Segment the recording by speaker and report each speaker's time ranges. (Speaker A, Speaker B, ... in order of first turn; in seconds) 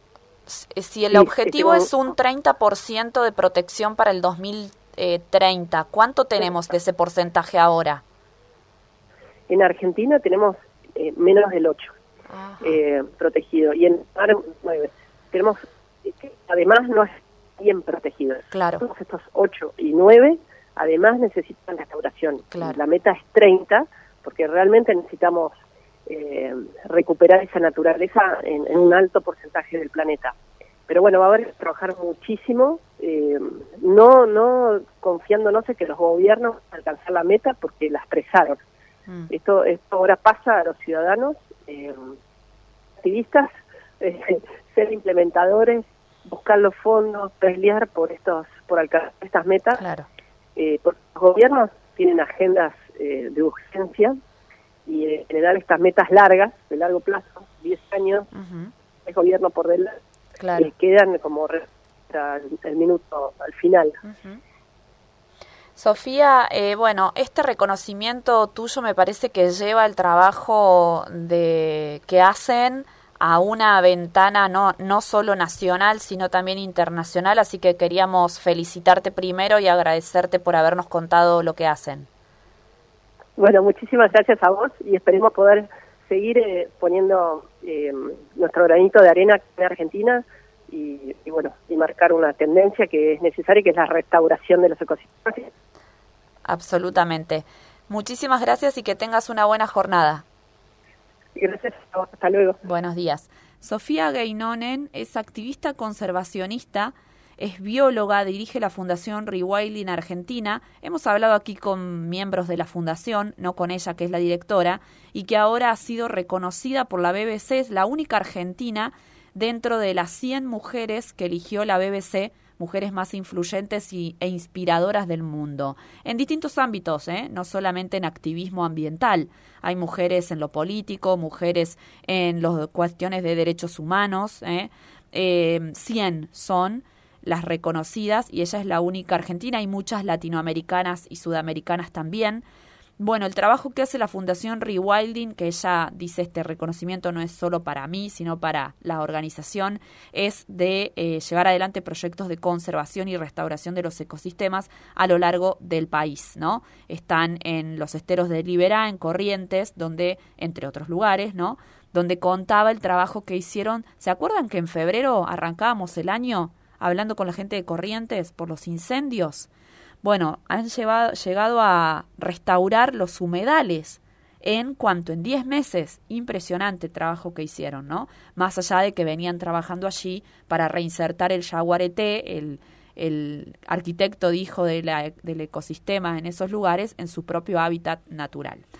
Speaker A: 0.5-8.0, 12.3-12.8, 18.5-18.8, 22.5-22.8, 49.8-50.1, 58.3-58.7, 60.4-60.7, 64.0-64.4, 65.8-82.1, 96.4-100.2, 102.6-142.4, 143.0-169.5, 170.0-188.6
Speaker B: 1.1-1.9, 9.5-11.9, 12.6-25.5, 26.1-30.4, 30.9-38.6, 39.3-42.1, 43.0-43.5, 44.0-49.8, 50.5-54.1, 54.9-58.3, 59.0-60.0, 60.5-64.0, 83.4-95.5, 101.3-102.6